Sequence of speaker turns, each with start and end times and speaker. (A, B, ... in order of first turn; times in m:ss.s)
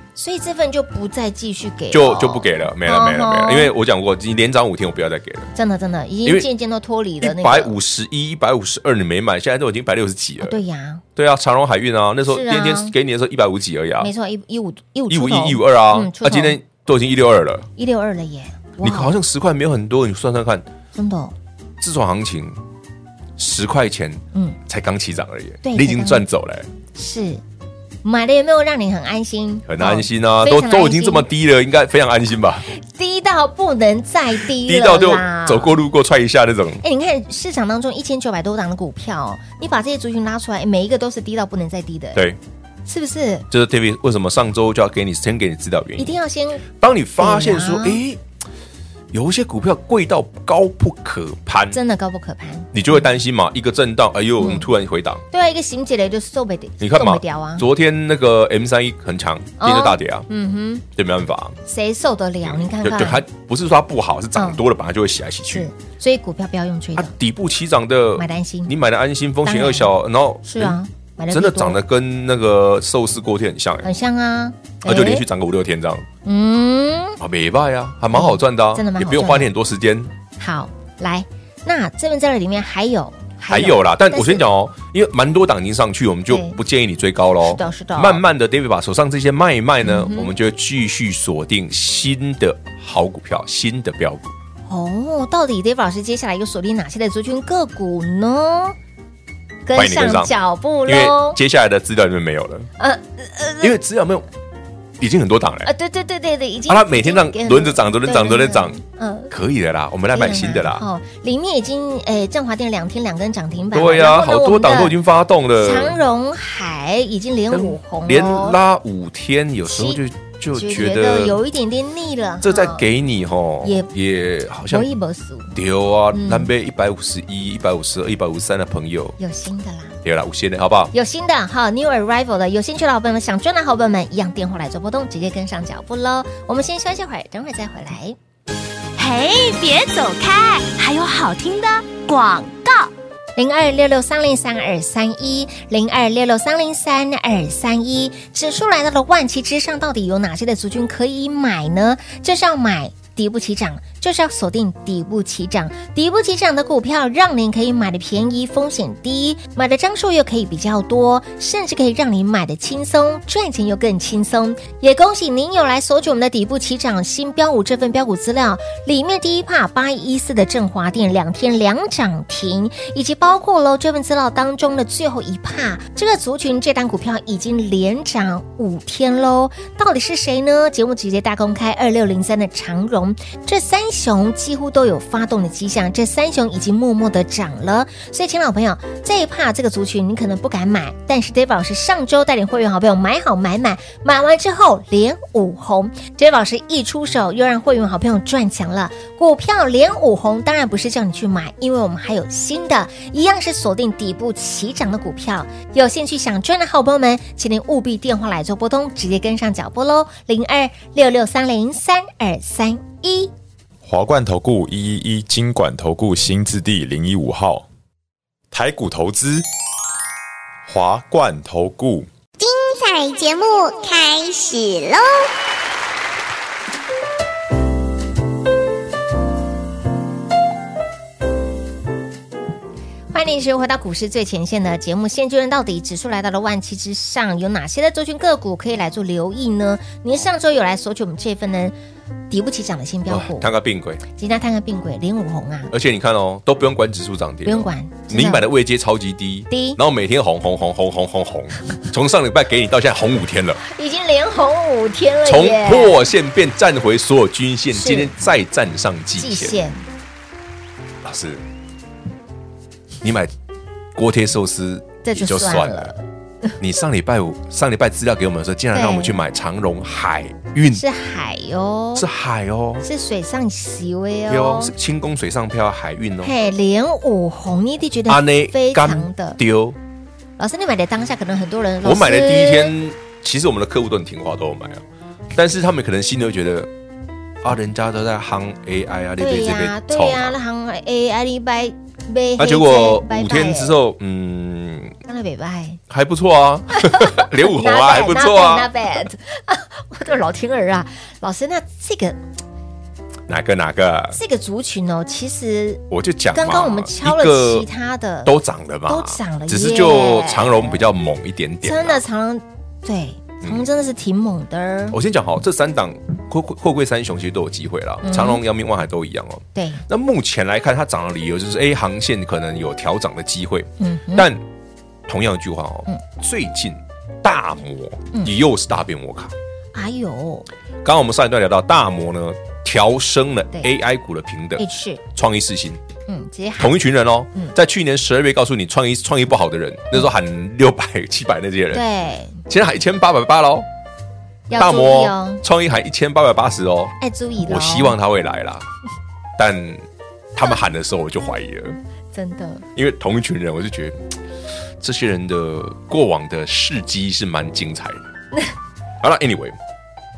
0:00.2-0:03.7 A
0:01.9-0:05.5 B
0:05.5-0:07.8 A
0:07.2-0:10.6 B
0:10.4-0:11.0 A
0:11.2-0:14.1 B
0:12.3-0:12.9 A
0:14.0-0:16.6 A
0:15.1-0:17.7 B
0:17.8-0:19.1 A
0:18.8-0:20.6 B
0:20.9-0:21.3 A
0:21.8-0:22.6 B
0:23.4-0:26.7 B
0:25.6-0:26.2 A
0:26.9-0:27.4 A
0:28.0-0:31.3 A
0:29.7-0:32.7 B
0:32.7-0:35.8 A
0:34.5-0:36.8 B
0:36.8-0:42.2 A
0:42.8-0:43.5 A
0:43.5-0:48.2 B
0:46.0-0:46.6 A
0:47.2-0:48.0 A
0:49.1-0:51.8 B
0:51.7-0:53.0 A
0:52.7-0:55.2 B
0:54.4-0:54.7 A
0:55.3-0:57.6 A
0:56.8-1:00.2 B
0:59.6-1:00.8 A
1:01.0-1:01.6 B
1:01.6-1:03.2 A
1:02.4-1:05.7 B
1:04.4-1:04.6 A
1:05.5-1:07.1 A
1:07.0-1:10.8 B
1:08.2-1:08.7 A
1:09.4-1:09.9 A
1:10.4-1:11.8 A
1:11.3-1:13.9 B
1:13.8-1:15.2 A
1:14.8-1:16.1 B
1:16.2-1:17.2 A
1:17.2-1:20.1 B
1:18.1-1:19.5 A
1:20.4-1:24.4 A
1:23.5-1:34.3 B
1:26.3-1:26.6 A
1:27.4-1:28.2 A
1:29.8-1:30.3 A
1:34.7-1:38.8 A
1:39.6-1:41.4 A
1:39.7-1:40.3 B
1:40.8-1:42.7 B
1:42.8-1:43.7 A
1:43.6-1:44.2 B
1:45.0-1:45.7 B
1:45.6-1:49.3 A
1:46.7-1:48.8 B
1:49.3-1:50.8 B
1:50.1-1:55.0 A
1:53.7-1:56.0 B
1:55.6-1:58.6 A
1:57.5-2:01.4 B
1:59.6-2:00.0 A
2:00.5-2:02.8 A
2:02.4-2:04.9 B
2:03.6-2:03.9 A
2:04.7-2:05.5 A
2:05.5-2:09.2 B
2:06.1-2:06.5 A
2:09.2-2:10.0 A
2:10.0-2:10.9 B
2:10.9-2:18.2 A
2:19.0-2:22.9 C
2:23.4-3:33.3 A
3:33.8-3:37.6 D
3:38.5-3:39.4 D
3:40.7-3:42.1 D
3:42.4-3:45.3 E
3:53.1-4:01.7 A
4:02.3-4:03.5 A
4:03.1-4:04.0 B
4:04.1-4:05.7 A
4:05.7-4:13.6 B
4:07.4-4:08.5 A
4:09.5-4:09.8 A
4:13.6-4:16.0 A
4:15.2-4:19.6 B
4:17.7-4:18.1 A
4:19.2-4:19.8 A
4:21.0-4:21.4 B
4:23.0-4:23.3 B
4:23.9-4:25.9 B
4:25.0-4:26.0 A
4:26.6-4:30.8 B
4:28.7-4:29.2 A
4:30.7-4:32.0 A
4:32.0-4:32.8 B
4:32.8-4:34.7 A
4:34.3-4:36.3 B
4:36.2-4:39.4 A
4:38.1-4:39.8 B
4:40.4-4:42.7 A
4:41.8-4:46.7 B
4:47.4-4:50.4 B
4:49.2-4:53.8 A
4:52.4-4:54.9 B
4:55.0-4:55.8 A
4:55.9-4:58.8 B
4:56.7-5:02.2 A
5:03.3-5:04.2 B
5:04.1-5:08.3 A
5:05.9-5:07.7 B
5:08.2-5:12.0 B
5:08.8-5:10.8 A
5:11.6-5:15.0 A
5:14.9-5:24.4 B
5:18.0-5:18.4 A
5:19.5-5:19.8 A
5:23.8-5:24.3 A
5:25.1-5:29.3 B
5:29.7-5:30.5 A
5:30.8-5:35.8 B
5:34.6-5:35.0 A
5:36.1-5:36.8 A
5:36.6-5:41.8 B
5:41.7-5:42.4 A
5:42.5-5:43.7 B
5:44.5-5:45.4 A
5:44.5-5:48.6 B
5:47.0-5:48.0 A
5:49.4-5:51.8 B
5:52.1-5:52.6 A
5:52.7-5:54.0 B
5:54.8-5:58.0 B
5:59.0-5:59.6 B